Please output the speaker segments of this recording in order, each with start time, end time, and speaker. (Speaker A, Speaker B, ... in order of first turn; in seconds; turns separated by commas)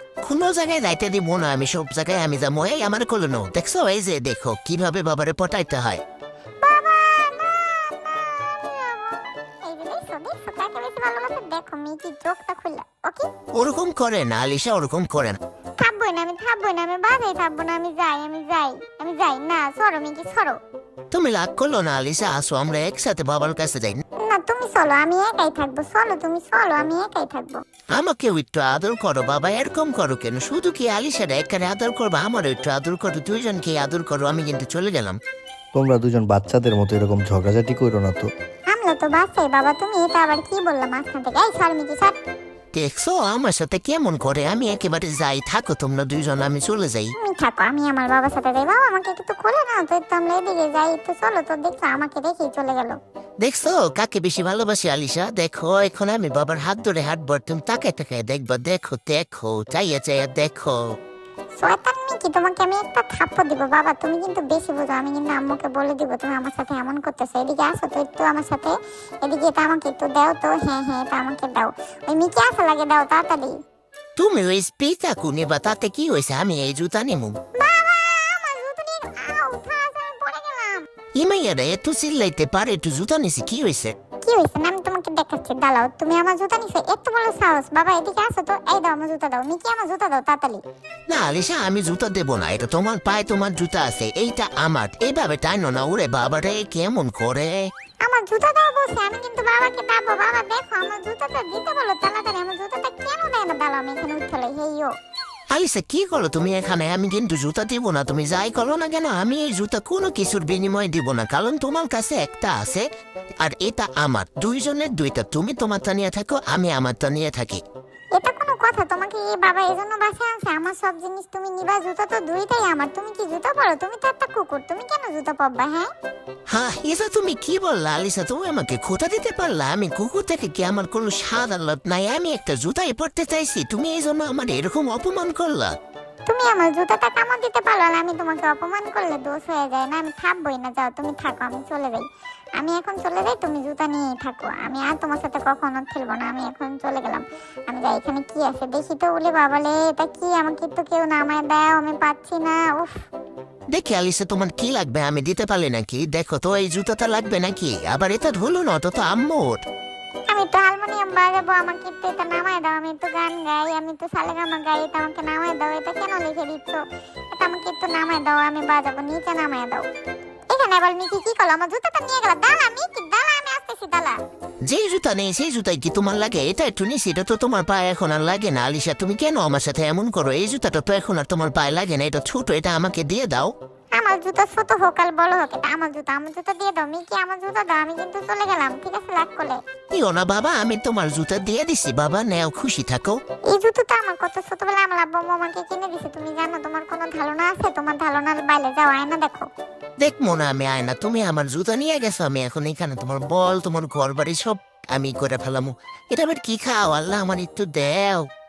Speaker A: 0.2-6.0, Speaker B: 6.6-13.3, Speaker A: 13.5-15.4, Speaker B: 15.8-20.6, Speaker A: 21.1-24.0, Speaker B: 24.2-27.6, Speaker A: 27.9-35.2, Speaker C: 35.7-38.3, Speaker B: 38.7-42.2, Speaker A: 42.7-47.1, Speaker B: 47.2-53.0, Speaker A: 53.4-60.8, Speaker B: 61.6-73.6, Speaker A: 74.2-77.4, Speaker B: 77.6-80.9, Speaker A: 81.1-84.0, Speaker B: 84.2-90.6, Speaker A: 91.1-97.7, Speaker B: 98.0-104.9, Speaker A: 105.5-112.9, Speaker A: 113.4-117.6, Speaker B: 118.1-125.9, Speaker A: 126.5-135.7, Speaker B: 136.2-142.1, Speaker B: 142.6-153.0, Speaker A: 153.7-159.6, Speaker B: 160.3-166.8, Speaker B: 167.3-169.8, Speaker B: 170.5-174.2, Speaker A: 174.6-183.5, Speaker B: 183.9-189.6, Speaker A: 189.9-193.2, Speaker B: 193.5-199.5, Speaker A: 200.0-208.3